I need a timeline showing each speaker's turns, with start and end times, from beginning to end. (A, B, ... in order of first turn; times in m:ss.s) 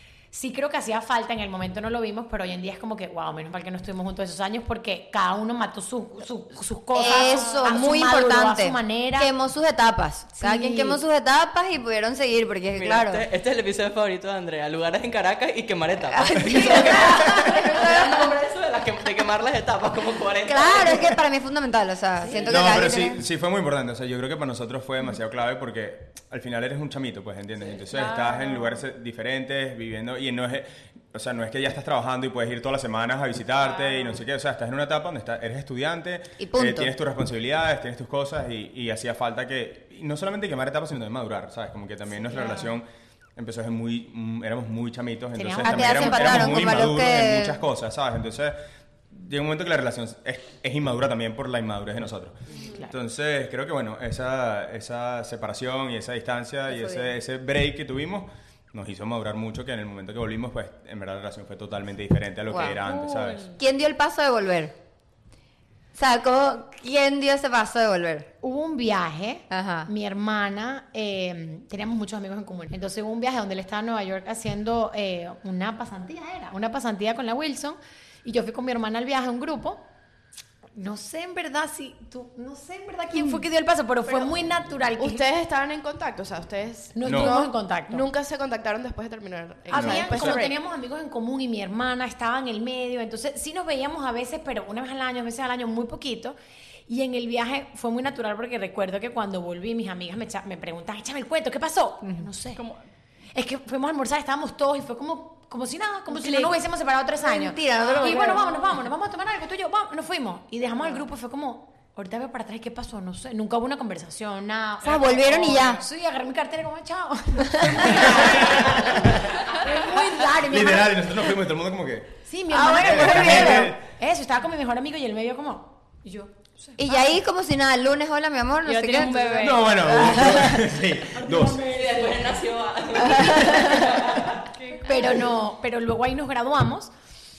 0:00.3-0:09.3 A
0:06.9-0:13.2 B
0:10.4-0:11.0 A
0:12.8-0:21.2 C
0:16.1-0:18.3 B
0:16.4-0:17.1 D
0:16.6-0:17.0 A
0:20.4-0:23.2 B
0:22.4-0:48.6 D
0:27.6-0:27.9 C
0:28.1-0:28.8 E
0:36.4-0:36.9 B
0:45.4-0:46.9 A
0:45.6-0:47.6 B
0:49.1-1:03.5 D
0:56.7-0:57.0 B
1:02.5-1:02.8 B
1:02.8-1:03.6 E
1:03.6-1:04.7 B
1:05.9-1:08.3 B
1:08.4-1:19.8 A
1:09.5-1:09.9 B
1:20.7-1:25.2 A
1:24.1-1:24.3 F
1:25.0-1:30.6 F
1:26.9-1:28.0 A
1:27.0-1:27.4 D
1:29.7-1:36.4 A
1:29.7-1:30.4 D
1:36.9-1:42.6 A
1:42.5-1:42.8 E
1:43.3-2:01.1 A
1:46.1-1:46.6 B
1:47.2-1:48.8 B
1:54.8-1:55.8 B
1:57.8-1:59.4 D
2:00.3-2:03.8 D
2:02.3-2:06.3 A
2:02.5-2:03.7 B
2:06.8-2:09.4 B
2:08.6-2:09.8 E
2:09.3-2:11.7 D
2:09.9-2:10.6 B
2:11.2-2:12.4 A
2:11.5-2:14.4 C
2:13.0-2:14.0 B
2:14.5-2:15.3 E
2:14.7-2:16.9 A